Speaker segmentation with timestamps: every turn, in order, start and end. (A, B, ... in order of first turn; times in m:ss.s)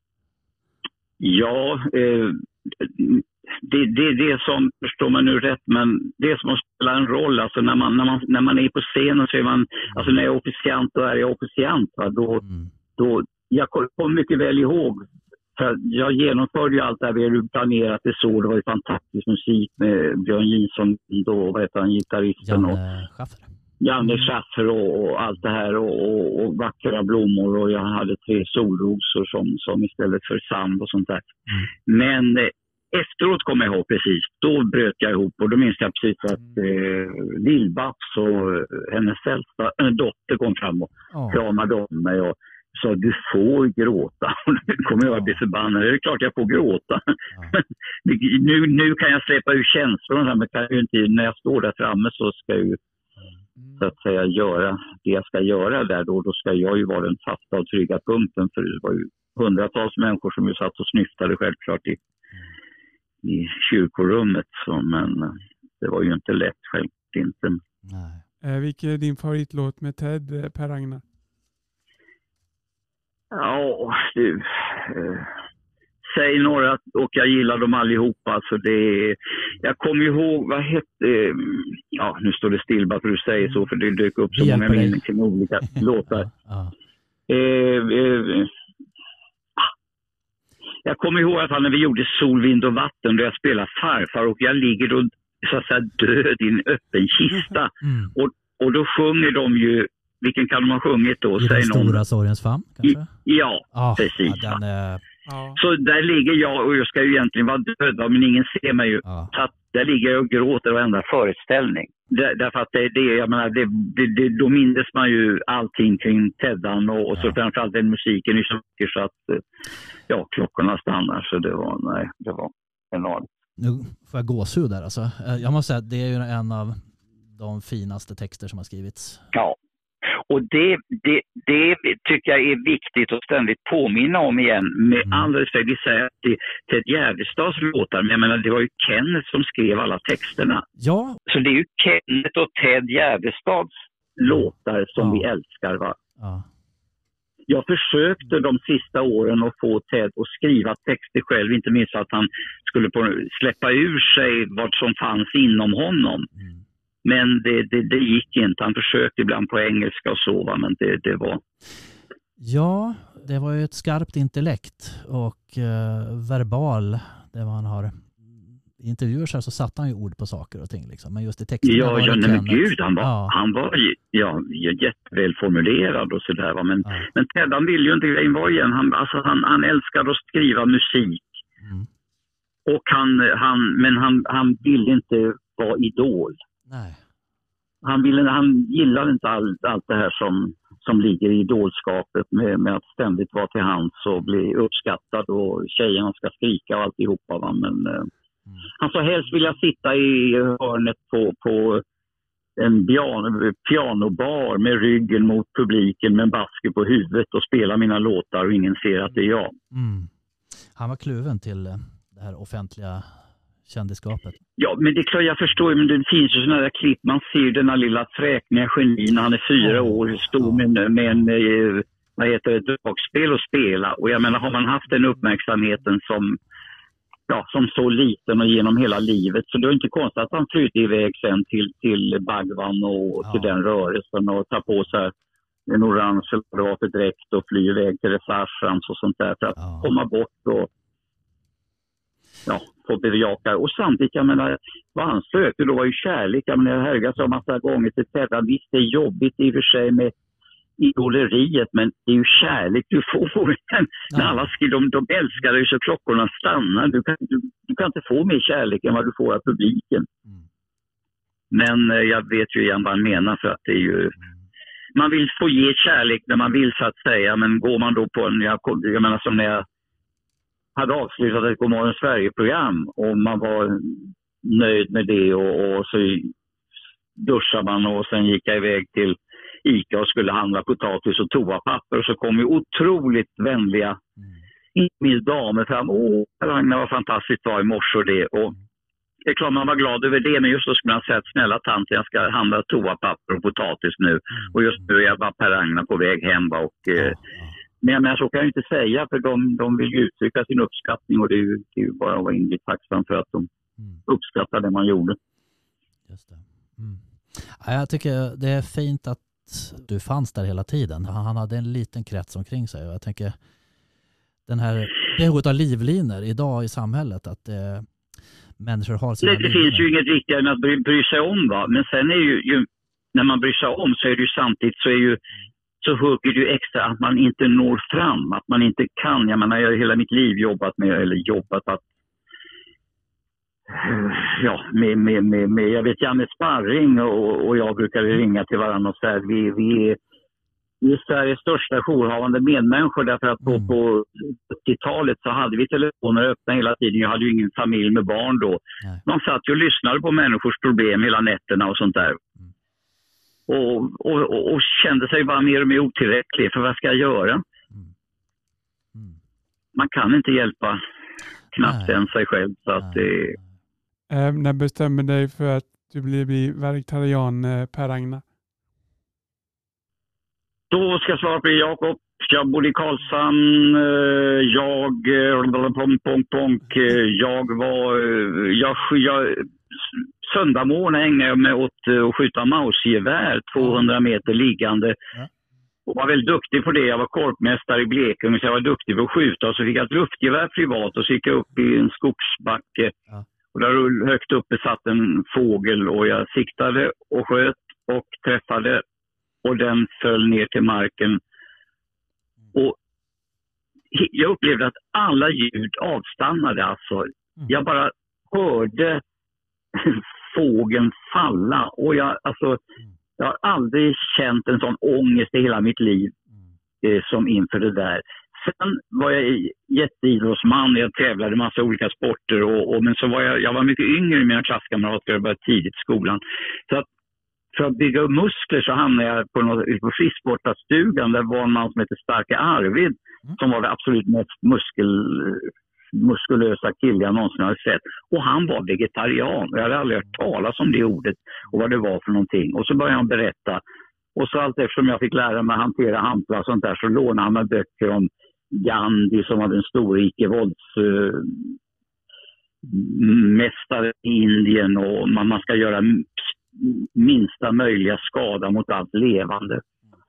0:01.2-0:12.4 A
0:12.4-0:12.7 B
0:13.0-0:22.8 A
0:22.4-0:23.5 B
0:23.8-0:31.3 A
0:31.8-0:52.8 A
0:41.1-0:41.4 B
0:47.3-0:47.6 B
0:53.8-1:02.0 A
1:03.2-1:07.6 A
1:07.9-1:08.2 B
1:08.4-1:11.0 C
1:13.3-1:15.3 A
1:16.0-1:26.3 A
1:24.3-1:25.0 B
1:26.1-1:26.7 B
1:27.3-1:28.5 A
1:30.8-1:42.0 A
1:37.8-1:38.1 B
1:41.4-1:43.1 B
1:42.8-1:44.6 A
1:43.7-1:45.0 B
1:45.3-1:45.6 C
1:45.6-1:59.4 A
1:49.0-1:49.3 B
2:00.1-2:03.3 A
2:03.6-2:09.3 B
2:10.3-2:20.6 A
2:20.8-2:21.2 B
2:21.3-2:26.0 A
2:25.0-2:25.3 B
2:26.2-2:26.5 B
2:27.5-2:36.3 A
2:36.4-2:36.6 B
2:37.0-2:41.4 A
2:42.4-2:53.3 B
2:51.6-3:01.3 A
3:01.6-3:01.9 B
3:02.6-3:06.4 A
3:06.7-3:07.0 B
3:07.8-3:18.1 A
3:18.8-3:21.8 A
3:22.6-3:29.5 A
3:29.7-3:30.1 B
3:30.7-3:34.4 B
3:34.6-3:46.4 A
3:39.6-3:41.3 B
3:47.3-3:55.1 A
3:53.2-3:53.5 B
3:55.7-4:00.7 A
3:59.6-3:59.9 B
4:02.4-4:10.1 A
4:10.8-4:20.1 A
4:14.1-4:14.4 B
4:21.5-4:24.2 A
4:24.9-4:29.6 A
4:30.7-4:36.3 A
4:37.2-4:44.0 A
4:44.7-4:48.5 A
4:49.2-4:57.2 A
4:57.0-4:57.5 B
4:57.8-5:03.5 A
5:04.1-5:05.2 A
5:06.1-5:13.4 B
5:14.5-5:17.9 B
5:18.6-5:19.9 B
5:19.2-5:25.2 A
5:25.8-5:31.8 A
5:33.7-5:40.0 A
5:40.8-5:52.2 A
5:43.4-5:43.7 B
5:53.5-5:57.4 A
5:59.7-6:00.8 A
6:01.5-6:03.4 A
6:01.6-6:02.0 B
6:02.8-6:03.0 B
6:04.1-6:08.2 C
6:10.7-6:25.0 A
6:25.8-6:33.0 A
6:33.5-6:38.8 A
6:39.4-6:41.2 A
6:43.9-6:49.0 A
6:49.7-6:52.6 A
6:53.2-6:56.1 A
6:56.8-7:06.9 A
7:07.5-7:23.6 A
7:24.2-7:31.6 A
7:32.6-7:39.6 A